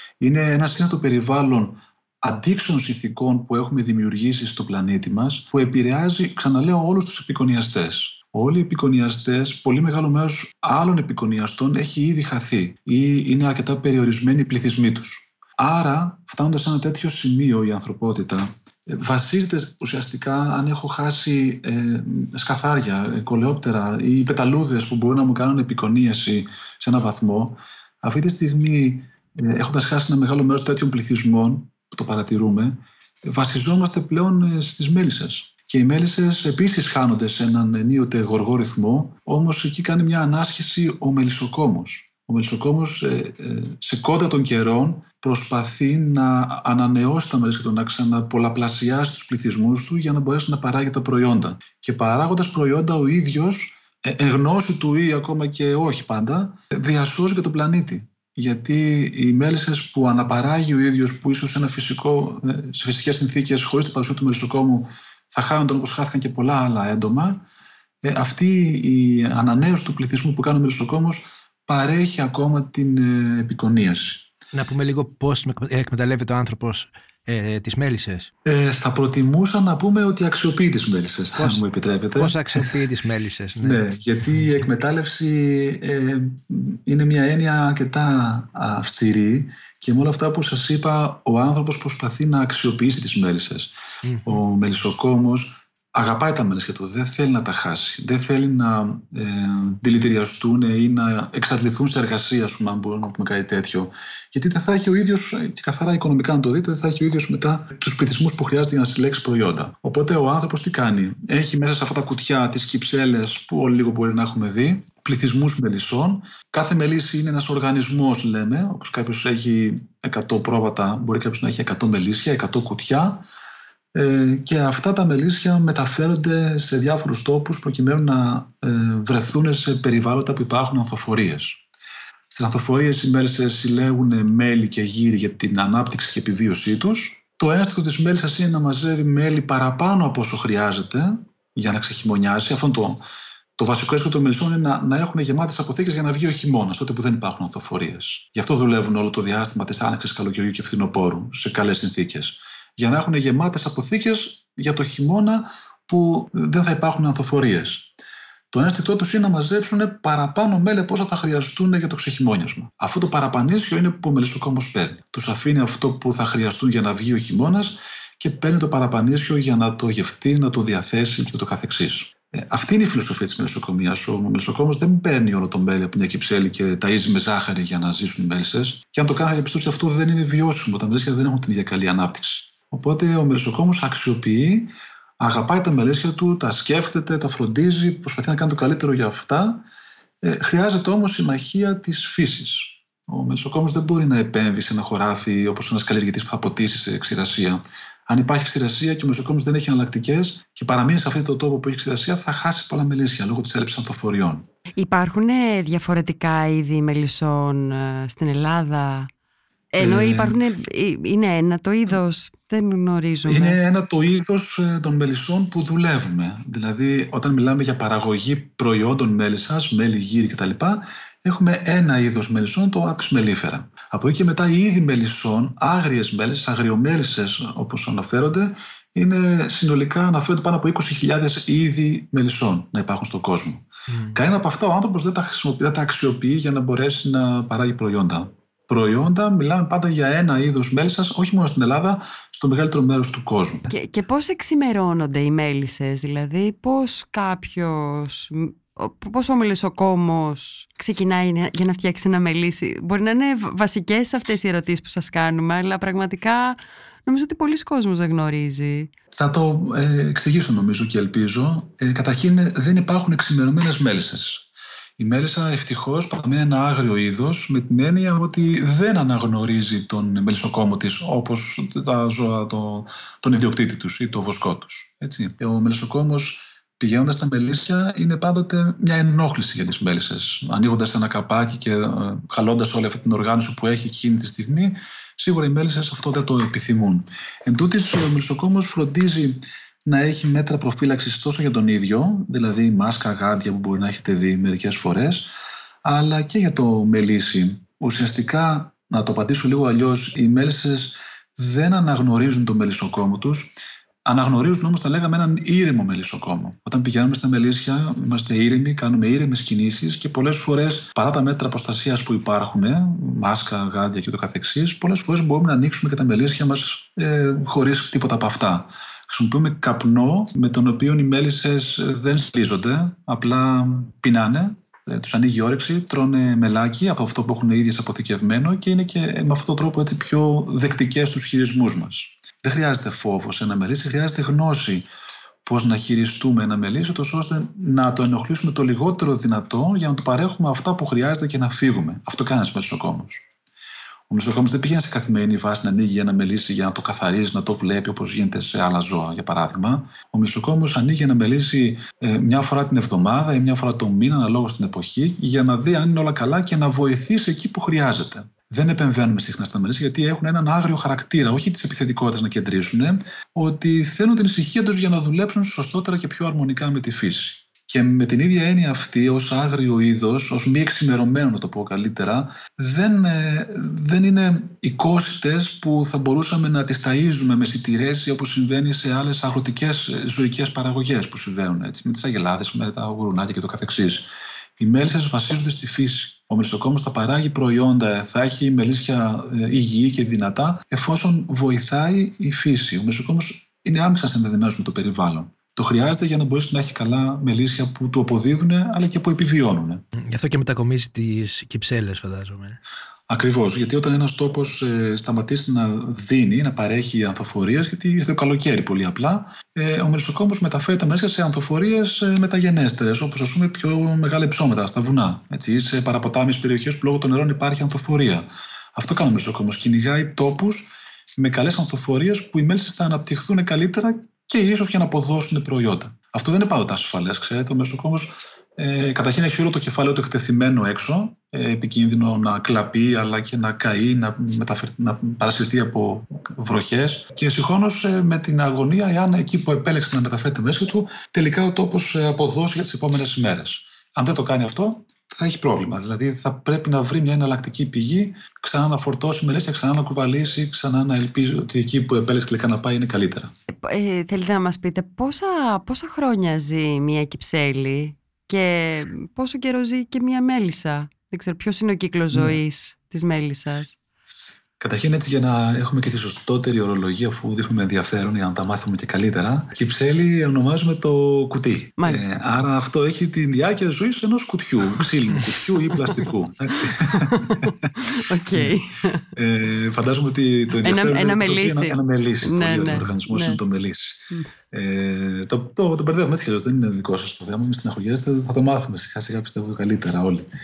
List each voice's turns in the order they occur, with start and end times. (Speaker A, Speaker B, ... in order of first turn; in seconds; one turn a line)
Speaker A: 0.2-67.4
Speaker A: 68.0-74.3
Speaker B: 74.5-78.3
Speaker A: 78.4-82.7
Speaker B: 81.4-83.8
Speaker A: 83.6-123.2
Speaker B: 94.0-94.4
Speaker A: 123.9-131.6
Speaker A: 132.3-143.0
Speaker A: 143.6-157.9
Speaker A: 158.5-189.6
Speaker A: 190.2-204.4
Speaker C: 204.8-209.1
Speaker C: 209.7-213.6
Speaker A: 209.8-210.4
Speaker A: 213.2-243.7
Speaker C: 243.7-258.9
Speaker A: 259.1-264.5
Speaker A: 265.0-295.3
Speaker A: 295.8-334.9
Speaker A: 335.4-343.2
Speaker A: 344.1-399.8
Speaker B: 400.0-402.6
Speaker A: 403.1-418.2
Speaker A: 418.8-453.3
Speaker C: 453.6-463.7
Speaker A: 464.6-477.7
Speaker C: 471.8-472.1
Speaker C: 476.8-479.0
Speaker A: 479.1-490.3
Speaker C: 480.6-483.4